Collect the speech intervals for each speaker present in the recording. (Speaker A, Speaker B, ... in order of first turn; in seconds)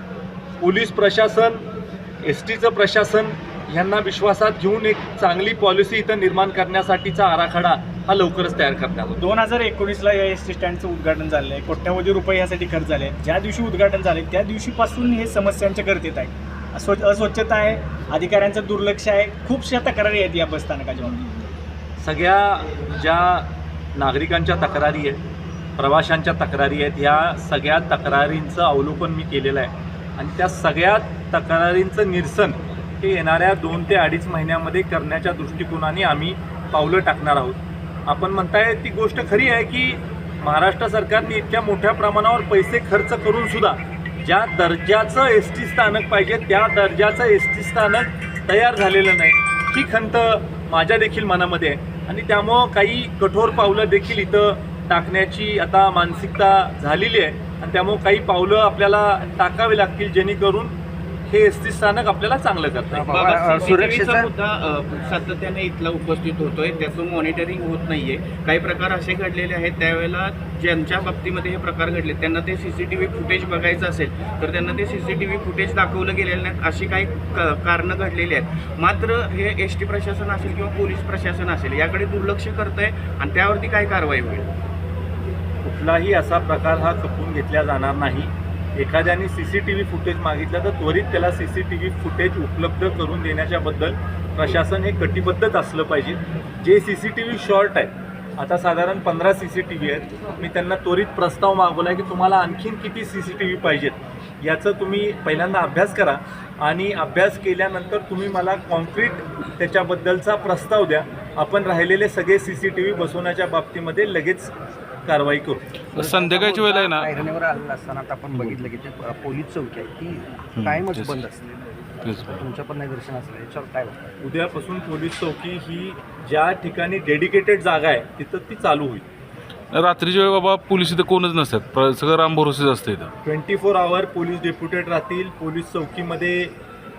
Speaker A: 0.6-1.6, 2.2-9.3, 22.0-25.2, 25.8-60.7, 61.3-63.1, 85.6-114.5, 115.0-115.6, 124.2-129.0, 133.2-136.5
Speaker B: 9.2-21.2
Speaker C: 62.9-64.3, 115.9-121.5, 122.0-124.1
Speaker D: 63.0-84.5
Speaker E: 115.9-117.1, 120.6-121.2, 122.0-122.4, 129.7-133.1